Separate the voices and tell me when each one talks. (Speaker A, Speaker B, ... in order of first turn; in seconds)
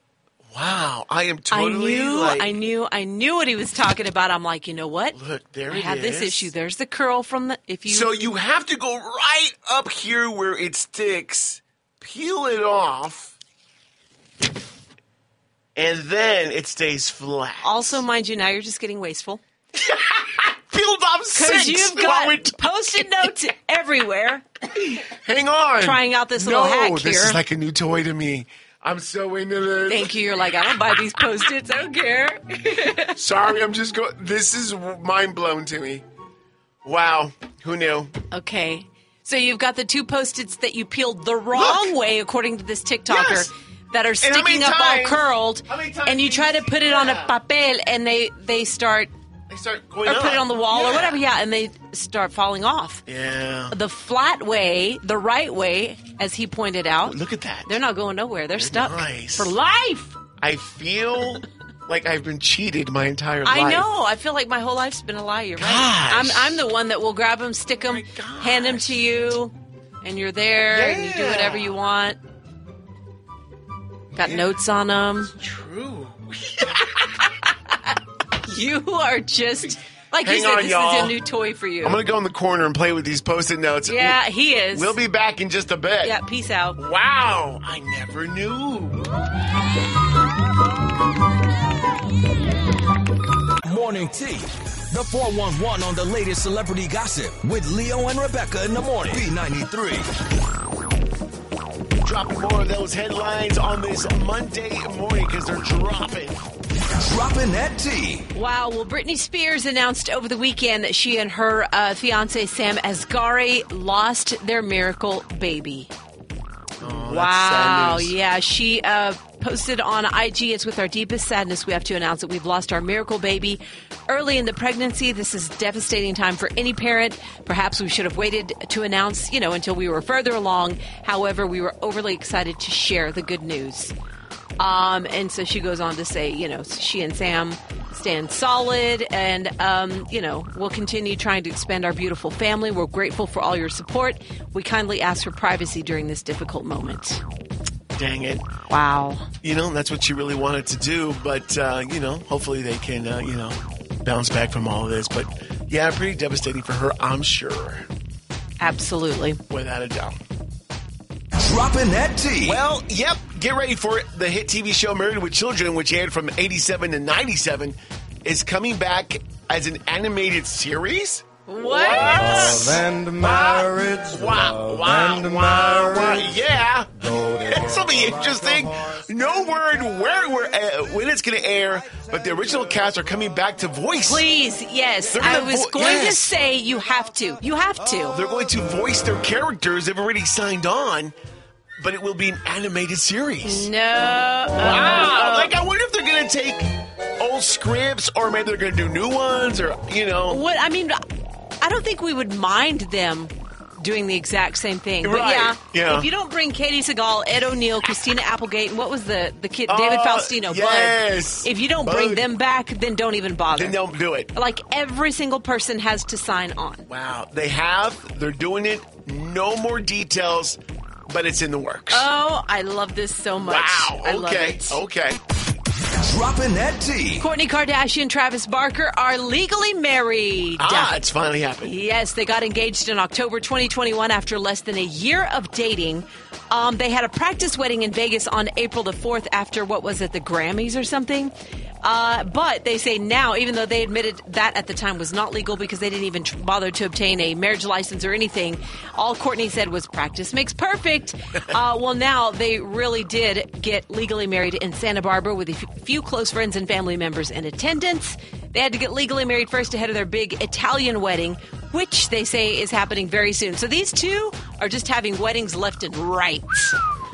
Speaker A: 0.5-2.5, 5.1-6.5, 7.9-13.3, 15.8-18.0, 19.8-22.6, 25.0-30.1, 33.2-36.0, 36.9-38.1, 41.5-41.9, 43.1-43.5, 44.2-47.3, 49.5-51.2, 53.1-53.8, 57.0-57.7, 58.5-59.5, 60.4-63.9, 65.6-66.6, 67.8-69.0, 70.7-71.7, 74.2-74.5, 75.3-77.1, 80.2-81.1, 81.8-84.2, 84.7-86.2, 86.8-89.0, 102.0-106.4, 116.8-118.1, 148.0-148.4, 149.4-157.8, 159.5-160.2, 162.4-184.2, 185.1-186.3, 188.1-191.1, 191.8-193.7, 194.6-196.7, 197.2-200.4, 205.0-206.1, 209.7-212.3, 213.5-214.3, 216.9-222.1, 223.4-225.2, 230.6-231.7
Speaker B: 1.5-5.2, 5.7-8.1, 17.6-19.4, 21.3-24.4, 25.8-27.4, 29.9-33.1, 38.3-49.1, 50.0-53.0, 53.7-60.2, 63.5-72.2, 74.2-75.3, 78.5-82.0, 83.9-85.0, 86.0-86.8, 108.3-115.9, 116.8-133.9, 134.6-147.2, 148.7-149.3, 158.6-159.4, 171.5-172.8, 184.1-188.2, 193.4-195.5, 200.3-201.0, 201.6-213.8, 214.3-216.8, 221.9-224.8, 227.2-230.9, 231.6-241.3, 241.8-266.7
Speaker C: 93.7-100.1, 107.0-108.3, 161.4-162.6, 226.0-227.2